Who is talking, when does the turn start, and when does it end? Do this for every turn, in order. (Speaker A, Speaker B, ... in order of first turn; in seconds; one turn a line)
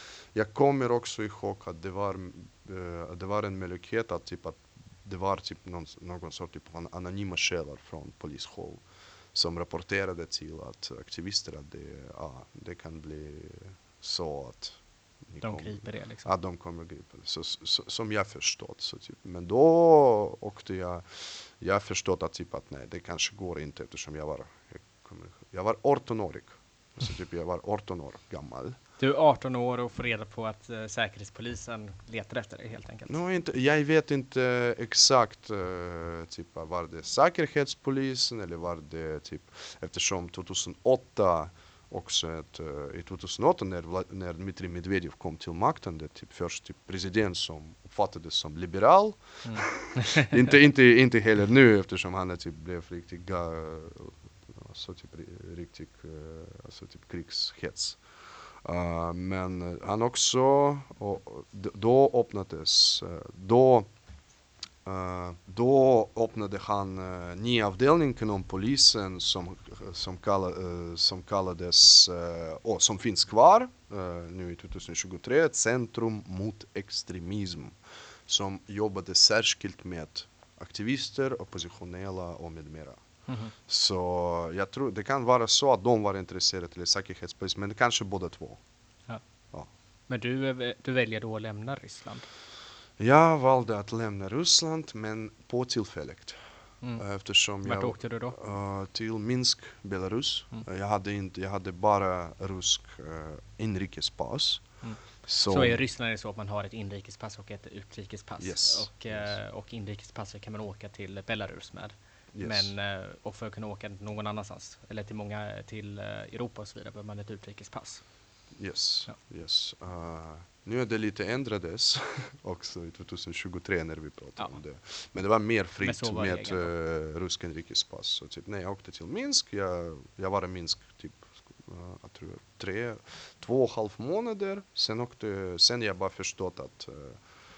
Speaker A: 0.3-28.8
Speaker B: 15.4-16.3
Speaker B: 29.0-33.1
Speaker A: 33.1-58.0
Speaker B: 49.4-50.4
Speaker A: 58.6-63.9
Speaker A: 64.8-83.0
Speaker B: 83.3-83.5
Speaker A: 83.7-88.6
Speaker B: 90.1-92.2
Speaker A: 93.0-96.4
Speaker A: 97.0-104.6
Speaker B: 97.6-98.4
Speaker B: 104.8-118.0
Speaker A: 105.2-105.8
Speaker A: 108.4-109.4
Speaker A: 112.3-112.7
Speaker A: 118.6-137.2
Speaker B: 125.8-126.7